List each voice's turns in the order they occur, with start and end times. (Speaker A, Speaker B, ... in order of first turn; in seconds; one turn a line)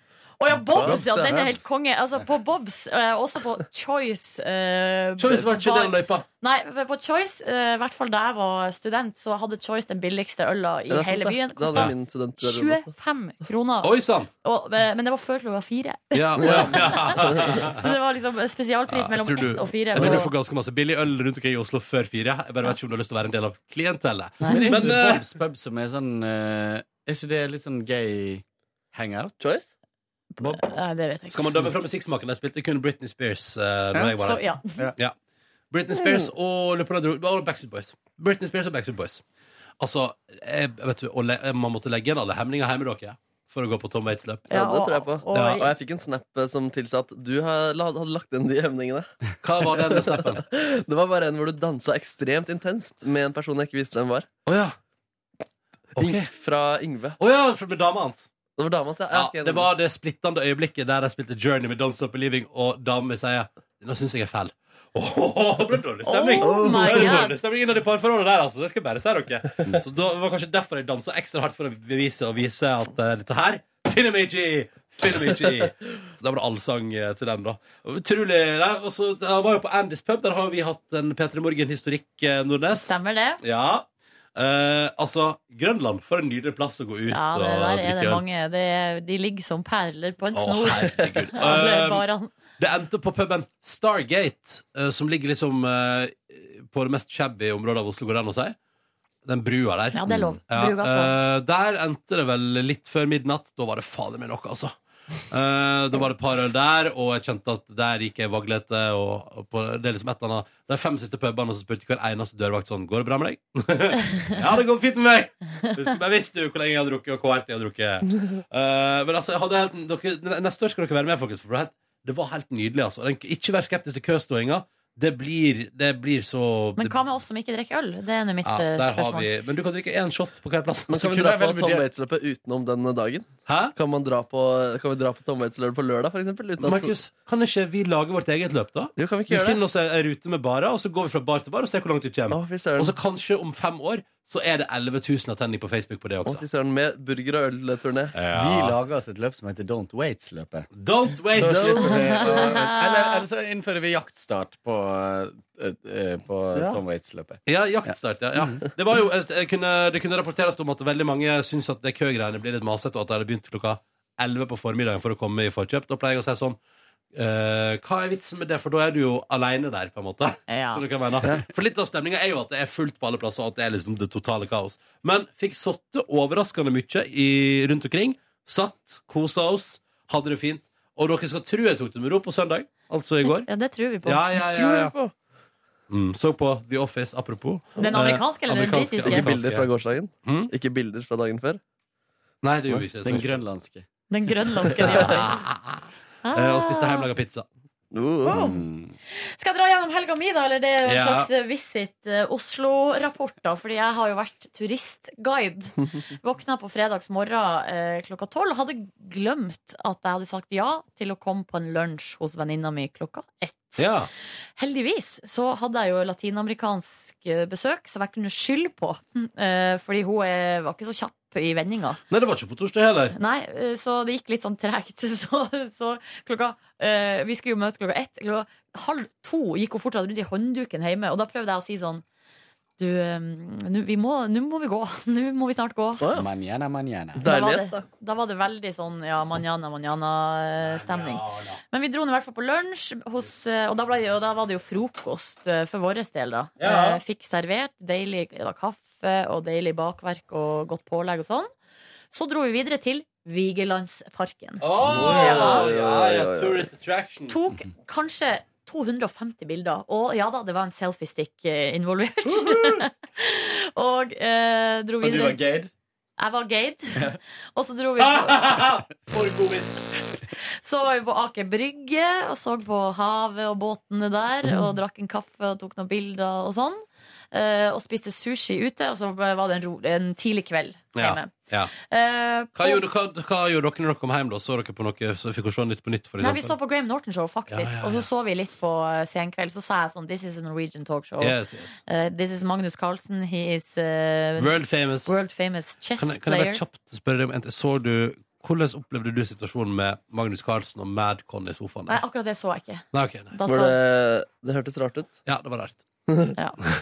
Speaker A: 0.4-20.3
Speaker B: 0.8-1.5
Speaker C: 5.2-6.3
Speaker D: 10.9-12.9
Speaker C: 13.8-14.3
Speaker C: 16.1-17.9
Speaker D: 16.4-16.8
Speaker C: 18.9-25.3
Speaker A: 24.4-24.9
Speaker B: 24.5-29.4
Speaker D: 29.4-29.7
Speaker A: 30.4-31.6
Speaker C: 31.3-34.4
Speaker A: 34.2-34.9
Speaker C: 35.7-39.2
Speaker C: 39.8-44.5
Speaker A: 44.5-45.7
Speaker D: 44.5-49.1
Speaker C: 45.3-45.7
Speaker C: 49.4-50.4
Speaker D: 49.7-54.3
Speaker C: 54.5-54.8
Speaker C: 56.0-56.3
Speaker D: 56.0-57.2
Speaker C: 57.2-58.3
Speaker D: 58.6-59.7
Speaker C: 59.1-88.2
Speaker A: 66.1-67.3
Speaker D: 66.4-67.2
Speaker A: 82.8-83.4
Speaker A: 87.1-92.3
Speaker C: 90.3-92.1
Speaker C: 92.6-98.6
Speaker C: 99.2-104.7
Speaker A: 99.9-101.2
Speaker B: 100.1-100.3
Speaker C: 105.3-127.0
Speaker A: 126.8-129.3
Speaker C: 128.4-131.5
Speaker D: 130.9-136.9
Speaker B: 131.3-131.8
Speaker C: 133.5-133.7
Speaker C: 136.6-146.4
Speaker D: 139.0-139.6
Speaker D: 142.3-142.9
Speaker D: 146.3-148.2
Speaker C: 148.2-148.8
Speaker B: 148.3-150.7
Speaker C: 150.8-152.3
Speaker D: 151.4-152.4
Speaker B: 151.4-158.6
Speaker A: 151.8-153.2
Speaker C: 157.5-166.6
Speaker C: 167.1-183.5
Speaker A: 170.5-170.8
Speaker A: 183.2-185.0
Speaker C: 184.1-184.9
Speaker C: 185.9-189.7
Speaker A: 187.8-189.3
Speaker D: 189.0-191.6
Speaker C: 190.2-190.5
Speaker C: 192.4-193.3
Speaker B: 193.0-193.9
Speaker A: 194.1-195.4
Speaker C: 194.8-197.5
Speaker A: 196.2-197.1
Speaker D: 197.9-198.4
Speaker B: 198.3-198.9
Speaker A: 198.3-198.6
Speaker A: 199.1-213.9
Speaker C: 200.8-201.3
Speaker C: 213.8-214.1
Speaker A: 214.6-222.0
Speaker C: 222.1-223.2
Speaker A: 223.1-232.0
Speaker A: 232.8-236.0
Speaker D: 236.0-236.3
Speaker B: 236.1-237.2
Speaker D: 237.2-237.8
Speaker A: 237.2-251.5
Speaker C: 240.6-241.6
Speaker C: 246.6-247.0
Speaker A: 252.1-255.7
Speaker C: 254.6-257.4
Speaker D: 254.9-256.7
Speaker A: 257.3-265.4
Speaker B: 265.0-265.7
Speaker A: 266.2-268.6
Speaker C: 268.0-269.9
Speaker A: 270.4-282.8
Speaker C: 280.9-281.7
Speaker C: 282.6-286.6
Speaker A: 286.2-296.6
Speaker C: 287.5-288.1
Speaker C: 291.2-291.7
Speaker C: 294.4-295.2
Speaker C: 296.0-302.0
Speaker A: 301.9-303.8
Speaker C: 302.9-303.3
Speaker D: 303.5-305.2
Speaker C: 305.3-305.8
Speaker D: 306.1-306.3